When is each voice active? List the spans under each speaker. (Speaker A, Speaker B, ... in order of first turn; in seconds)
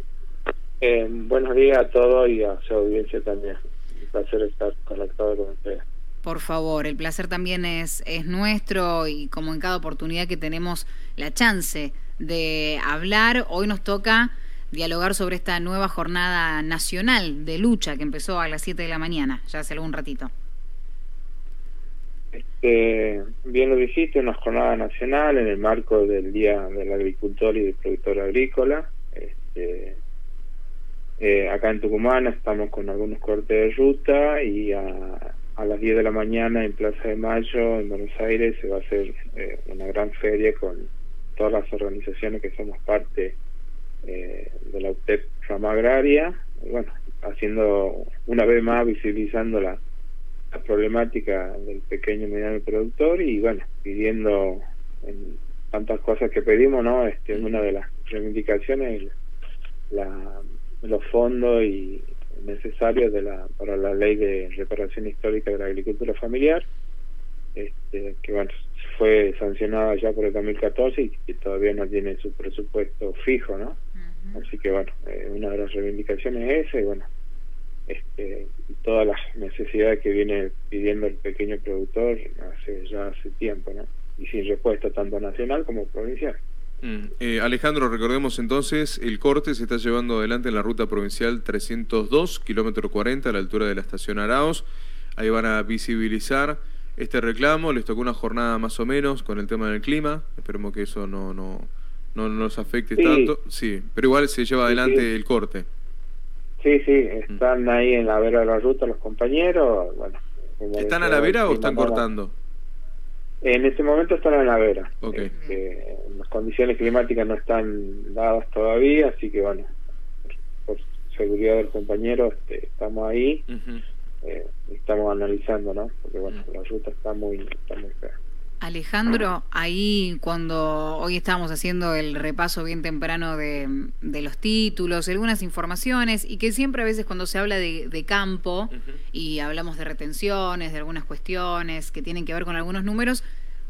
Speaker A: 0.8-5.8, 22.3-30.0, 31.2-43.4, 44.0-49.8, 50.5-59.1, 59.9-66.6, 67.5-73.8, 74.3-77.1, 77.9-86.4, 102.9-103.3, 104.6-105.0, 106.6-112.0, 113.4-119.7, 120.7-123.4, 124.2-128.2
Speaker B: 6.2-20.3, 74.0-74.4, 115.3-115.6, 128.6-143.2
Speaker C: 86.8-94.7, 95.2-105.7, 110.8-112.3, 115.0-115.3, 123.5-123.8